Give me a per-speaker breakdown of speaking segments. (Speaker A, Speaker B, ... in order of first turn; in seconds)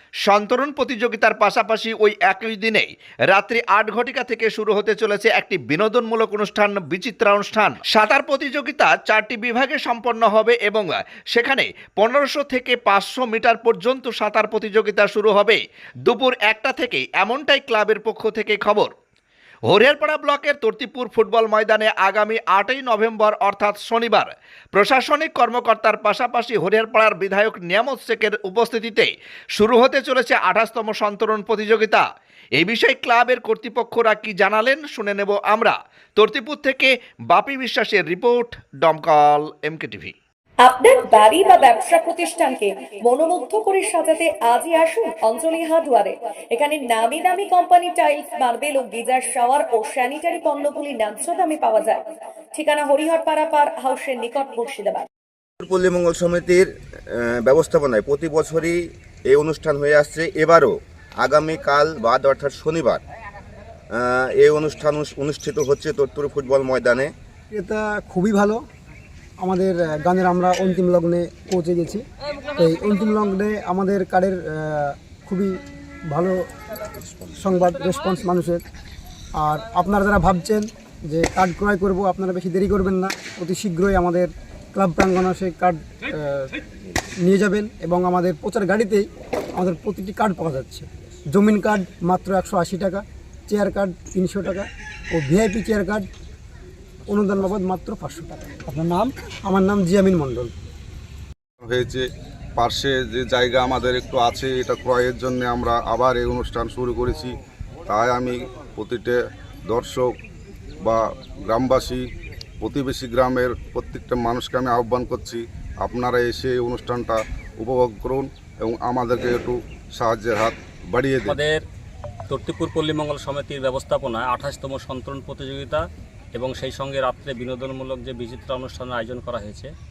Speaker A: 0.3-18.9, 19.7-32.0, 32.6-40.1
Speaker B: 40.6-55.1
Speaker C: 55.6-63.0, 63.9-67.1
Speaker D: 67.5-68.6, 69.4-72.0, 72.6-75.5, 76.1-76.3, 77.4-78.6, 79.4-86.4, 87.2-89.0, 89.6-96.1, 97.1-100.5
Speaker E: 101.6-102.0, 102.6-107.3, 107.9-110.1, 110.8-112.0, 112.6-121.4
Speaker F: 121.2-121.6, 122.3-125.8, 126.3-129.7